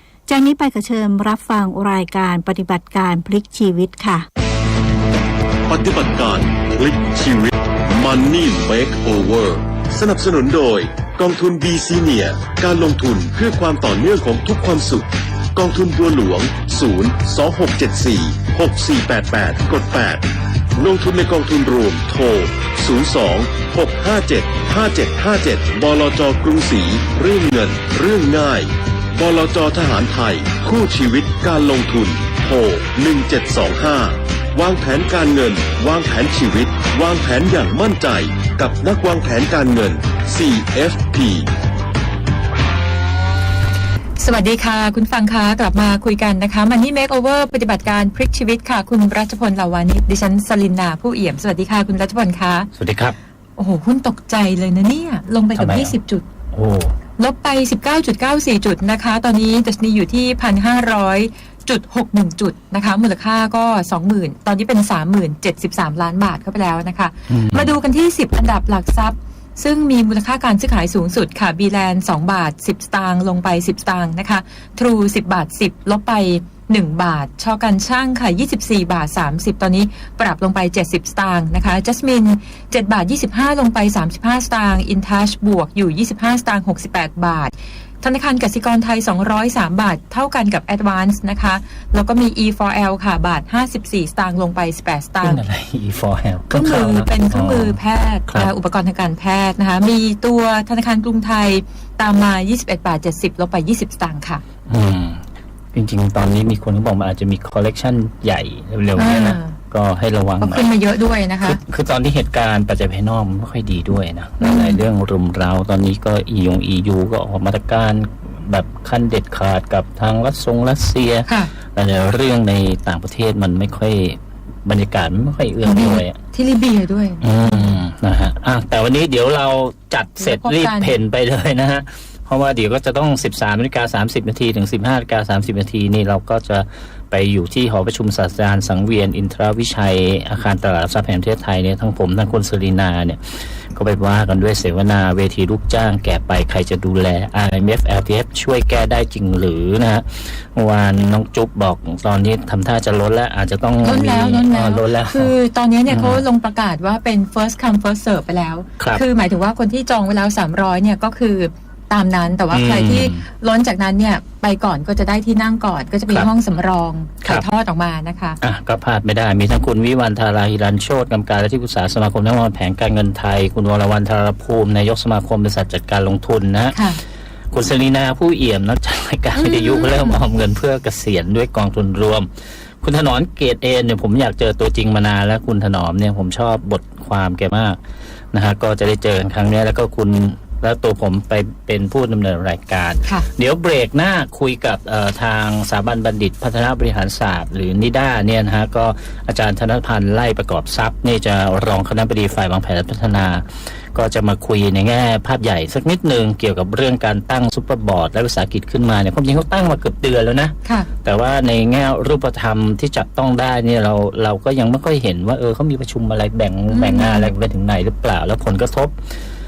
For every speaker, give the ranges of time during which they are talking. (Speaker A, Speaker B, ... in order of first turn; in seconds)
Speaker A: 0.3-4.2
Speaker B: 5.7-20.2, 20.8-41.5
Speaker C: 44.2-52.7, 53.6-56.3, 57.2-95.4, 96.5-104.4, 109.0-109.6, 110.4-111.6, 114.4-114.8, 121.2-121.5, 125.6-127.8, 130.2-131.0, 153.8-168.4, 176.7-177.0, 179.3-180.2, 216.7-217.3
Speaker D: 52.8-53.2, 55.6-56.0, 56.5-57.0, 67.3-67.8, 95.2-97.8, 104.7-105.2, 105.7-110.7, 111.4-126.2, 127.2-155.3, 155.9-156.2, 158.8-159.0, 162.5-163.2, 168.4-176.8, 177.5-182.3, 182.8-187.8, 188.3-218.9